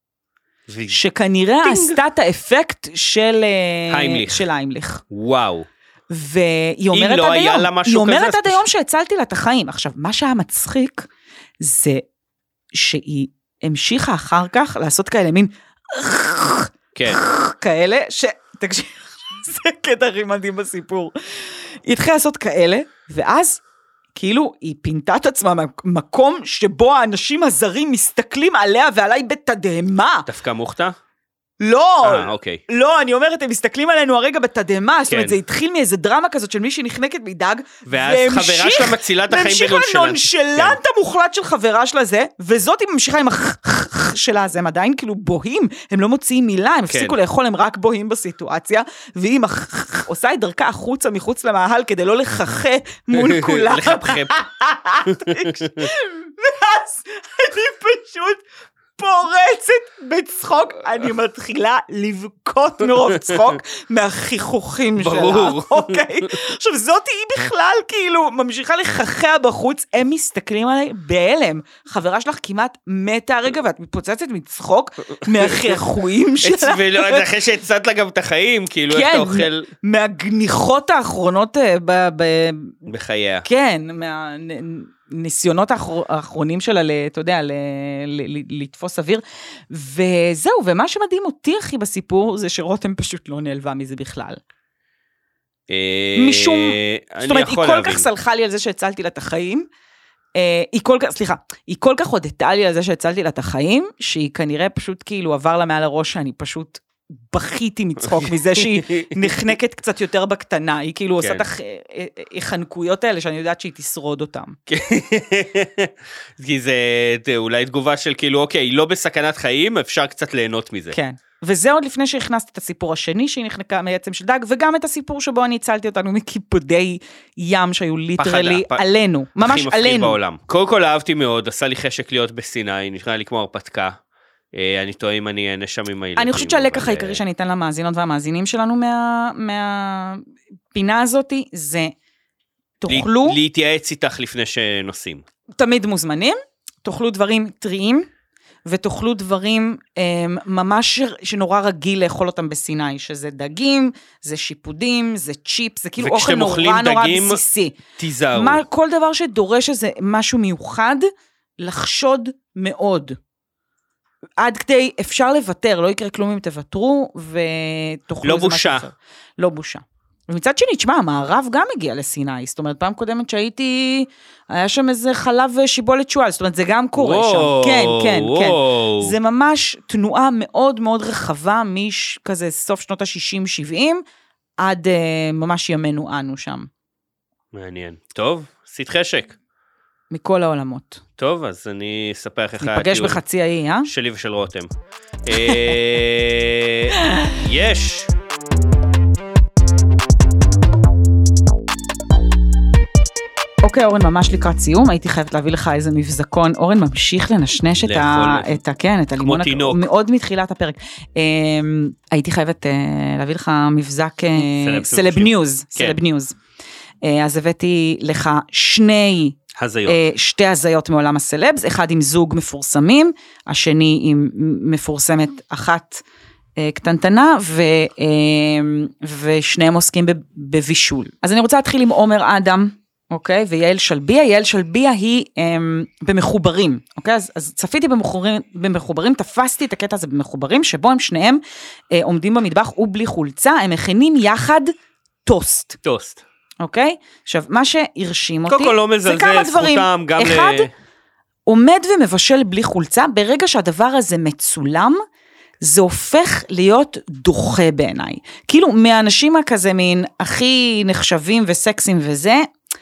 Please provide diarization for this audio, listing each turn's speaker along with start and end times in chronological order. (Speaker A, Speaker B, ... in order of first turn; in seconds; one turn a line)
Speaker A: 0.7-1.0
Speaker B: 0.9-5.0
Speaker A: 1.6-2.0
Speaker A: 3.9-4.5
Speaker A: 5.1-5.7
Speaker B: 6.1-11.1
Speaker A: 6.9-8.6
Speaker B: 11.6-12.0
Speaker B: 12.7-23.6
Speaker A: 16.9-17.2
Speaker B: 24.1-30.3
Speaker A: 30.2-30.9
Speaker B: 31.6-58.4
Speaker A: 32.0-32.6
Speaker A: 35.1-35.4
Speaker A: 37.9-40.8
Speaker A: 46.9-47.2
Speaker A: 53.1-54.4
Speaker A: 55.0-55.9
Speaker B: 59.0-77.3
Speaker A: 65.0-66.3
Speaker A: 75.3-75.8
Speaker A: 76.4-79.7
Speaker B: 78.9-82.8
Speaker A: 82.8-83.5
Speaker B: 83.4-94.4
Speaker A: 95.7-98.1
Speaker B: 96.2-99.7
Speaker B: 100.3-114.5
Speaker A: 108.1-109.3
Speaker A: 114.7-121.0
Speaker B: 120.9-130.2
Speaker A: 128.2-128.8
Speaker A: 129.4-134.0
Speaker A: 134.5-137.2
Speaker B: 136.2-141.9
Speaker B: 142.8-143.4
Speaker A: 142.9-145.2
Speaker B: 145.6-148.1
Speaker B: 148.7-157.8
Speaker A: 156.0-157.4
Speaker A: 158.0-158.6
Speaker B: 158.3-161.1
Speaker B: 161.6-163.2
Speaker B: 164.4-184.0
Speaker A: 168.2-168.9
Speaker A: 176.9-179.1
Speaker B: 184.6-186.7
Speaker A: 187.5-189.3
Speaker B: 190.1-191.0
Speaker A: 191.2-193.2
Speaker B: 192.6-193.9
Speaker A: 193.8-194.7
Speaker A: 195.2-198.1
Speaker B: 195.3-195.6
Speaker B: 197.0-197.3
Speaker B: 203.6-216.3
Speaker A: 207.8-208.6
Speaker A: 209.2-209.8
Speaker A: 214.3-216.0
Speaker B: 217.0-226.0
Speaker A: 219.5-220.0
Speaker B: 226.6-244.7
Speaker B: 245.2-245.8
Speaker A: 245.8-246.2
Speaker B: 246.6-250.7
Speaker A: 248.5-250.7
Speaker B: 251.5-255.0
Speaker B: 255.6-262.5